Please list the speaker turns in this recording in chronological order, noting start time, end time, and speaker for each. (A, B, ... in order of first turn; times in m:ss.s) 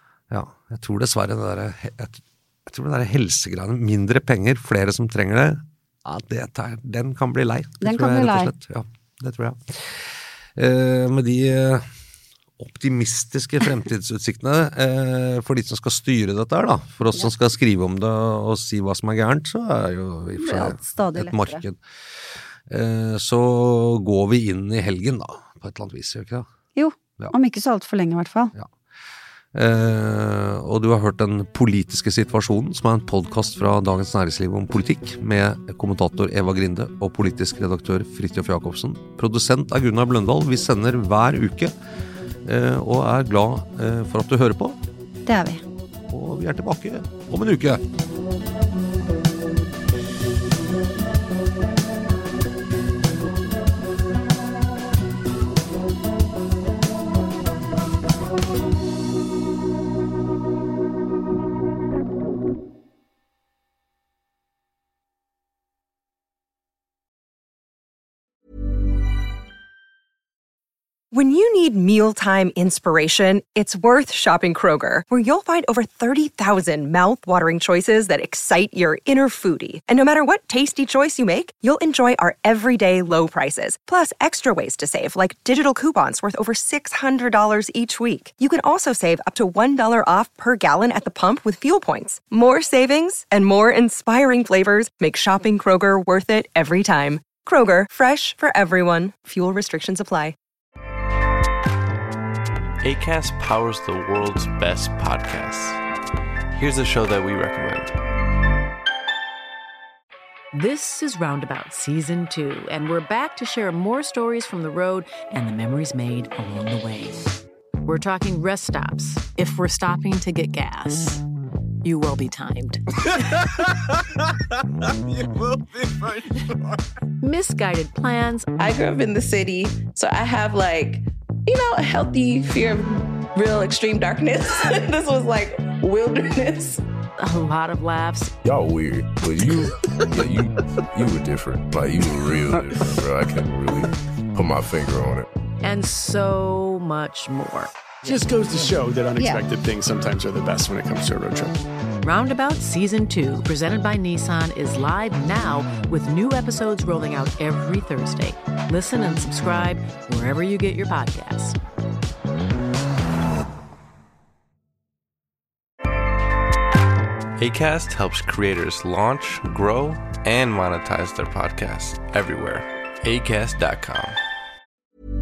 0:00.3-0:11.9 A
0:07.8-0:08.5 B
0:12.6-0:21.8 A
0:20.4-0:21.6 B
0:22.7-0:26.5 A
0:26.7-0:28.5 B
0:29.5-0:41.7 A
0:42.4-0:44.8 A
0:45.2-0:45.6 B
0:46.1-0:47.8 A
1:11.1-1:40.3 C
1:42.8-1:45.8 D
1:46.5-1:48.0 D
1:50.5-2:01.2 E
2:01.8-2:02.8 E
2:07.2-2:08.5 E
2:08.6-2:16.8 F
2:17.2-2:18.4 E
2:18.4-2:25.3 G
2:25.6-2:27.7 E
2:28.0-2:31.6 H
2:29.2-2:29.4 B
2:32.0-2:41.6 E
2:47.4-2:54.2 D